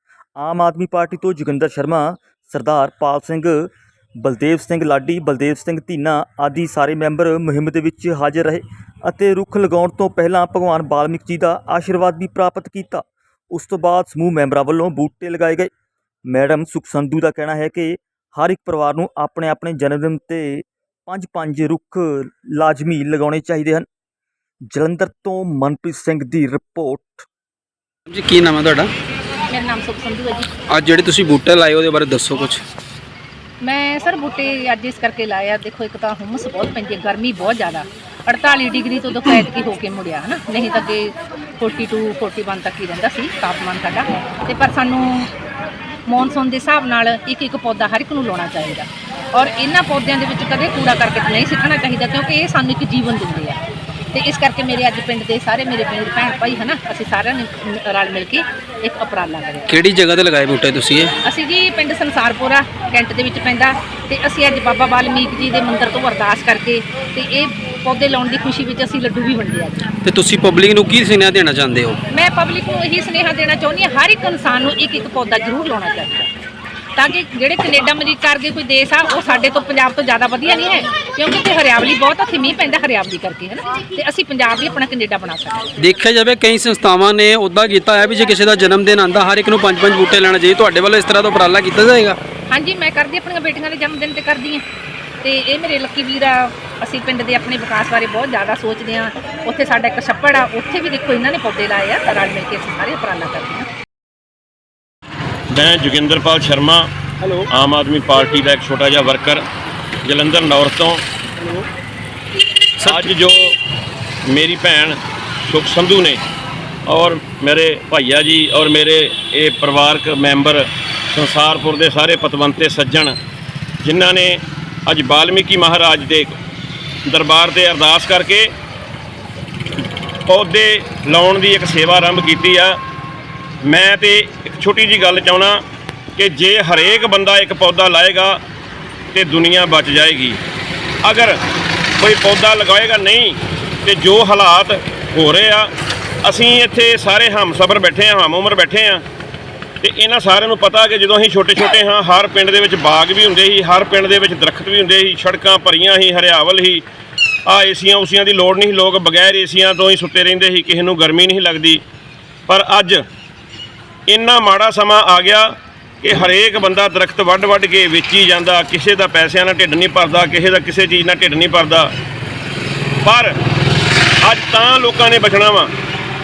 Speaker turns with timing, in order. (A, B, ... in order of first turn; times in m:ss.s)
0:00.4-0:03.7 A
0:04.2-0:15.7 A
0:16.3-0:23.8 A
0:24.7-0:27.2 A
0:28.1-0:28.9 B
0:29.5-0:30.5 C
0:30.7-0:32.6 B
0:33.6-0:45.3 C
0:46.0-0:53.6 C
0:54.1-0:59.7 C
0:59.7-1:01.1 B
1:01.2-1:09.9 C
1:10.0-1:12.0 B
1:12.1-1:16.3 C
1:17.0-1:25.7 C
1:25.8-1:32.2 B
1:32.5-1:34.6 C
1:35.2-1:43.7 C
1:45.5-1:49.4 D
1:50.0-1:51.0 D
1:52.8-1:53.1 B
1:52.8-1:53.5 D
1:54.2-1:56.2 D
1:56.8-2:03.2 D
2:03.8-2:06.4 D
2:07.0-2:08.5 D
2:10.3-2:12.8 D
2:13.6-2:15.6 D
2:16.2-2:18.4 D
2:19.1-2:20.4 D
2:21.0-2:21.4 D
2:22.0-2:25.7 D
2:26.2-2:29.0 D
2:29.8-2:36.8 D
2:37.5-2:41.8 D
2:42.5-2:43.0 D
2:44.1-2:45.5 D
2:46.0-2:51.9 D
2:53.0-2:53.3 D
2:54.2-2:55.7 D